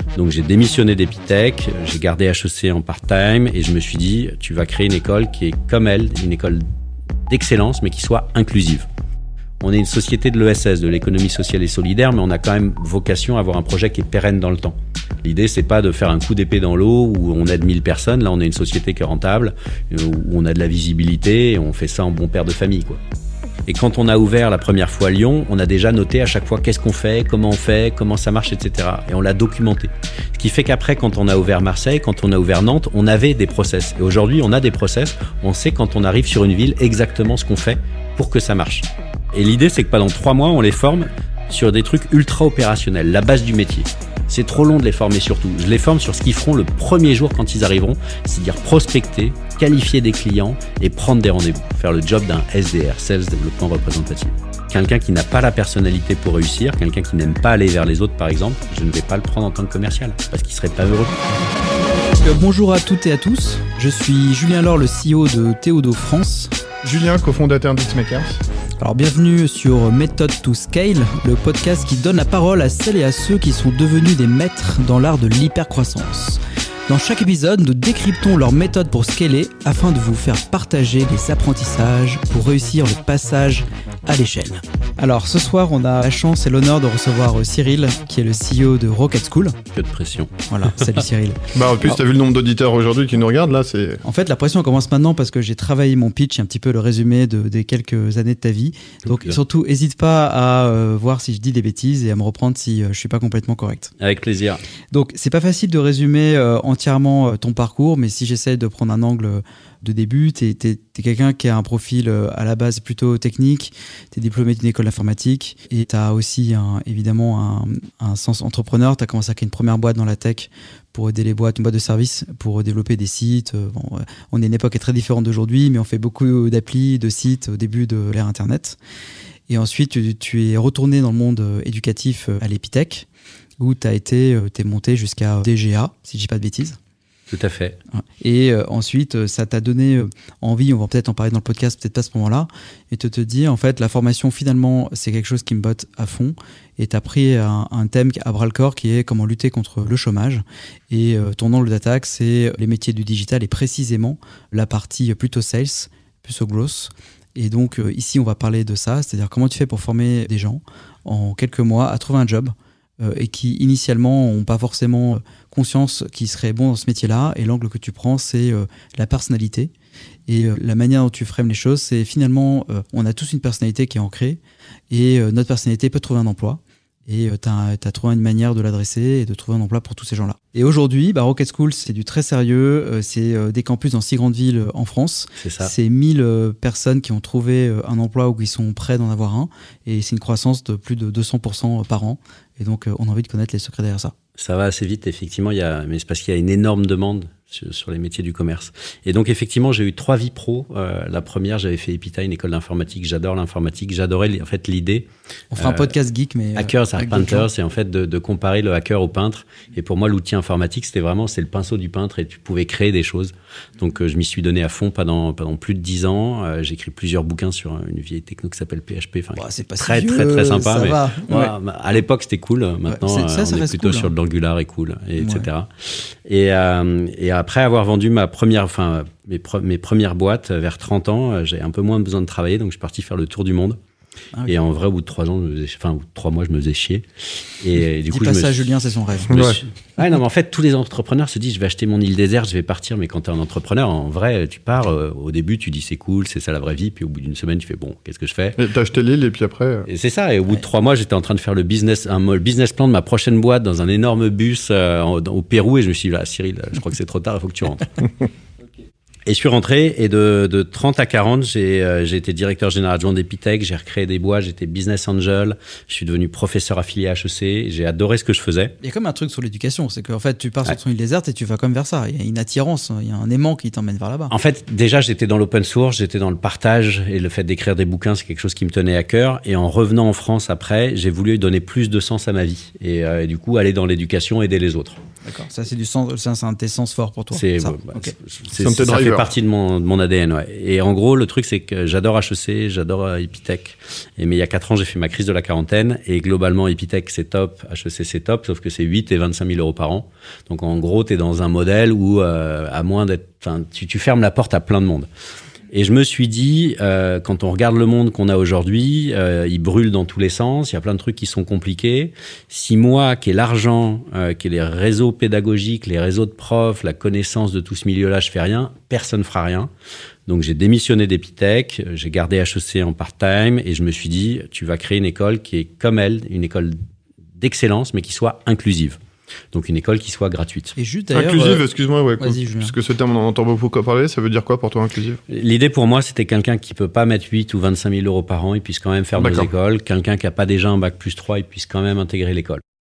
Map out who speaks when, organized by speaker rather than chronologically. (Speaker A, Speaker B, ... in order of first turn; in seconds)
Speaker A: 0.1-6.6, 7.3-8.9, 9.6-23.0, 23.7-61.3, 89.7-90.3, 99.1-99.4, 104.0-104.6, 137.3-137.8, 185.4-185.7, 194.4-205.9, 206.6-233.8, 234.5-238.6, 239.3-248.6, 249.9-258.0, 259.2-268.7, 274.3-285.0, 287.3-305.1, 305.7-319.7, 320.3-326.8, 327.4-329.0, 329.5-330.8, 335.3-342.6
Speaker B: 62.2-66.5, 68.8-89.6, 90.5-92.0, 94.0-103.9, 104.9-128.8, 129.5-133.1, 133.6-136.8, 138.2-169.7, 170.3-194.1, 205.5-207.5, 219.3-221.5, 222.8-224.1, 225.2-225.5, 238.1-239.4, 268.8-274.3, 285.2-288.1, 330.8-331.6, 332.2-332.7
Speaker C: 66.8-68.4, 91.5-94.0, 239.3-239.6, 248.6-249.9, 288.6-289.3, 331.1-335.2, 339.2-339.5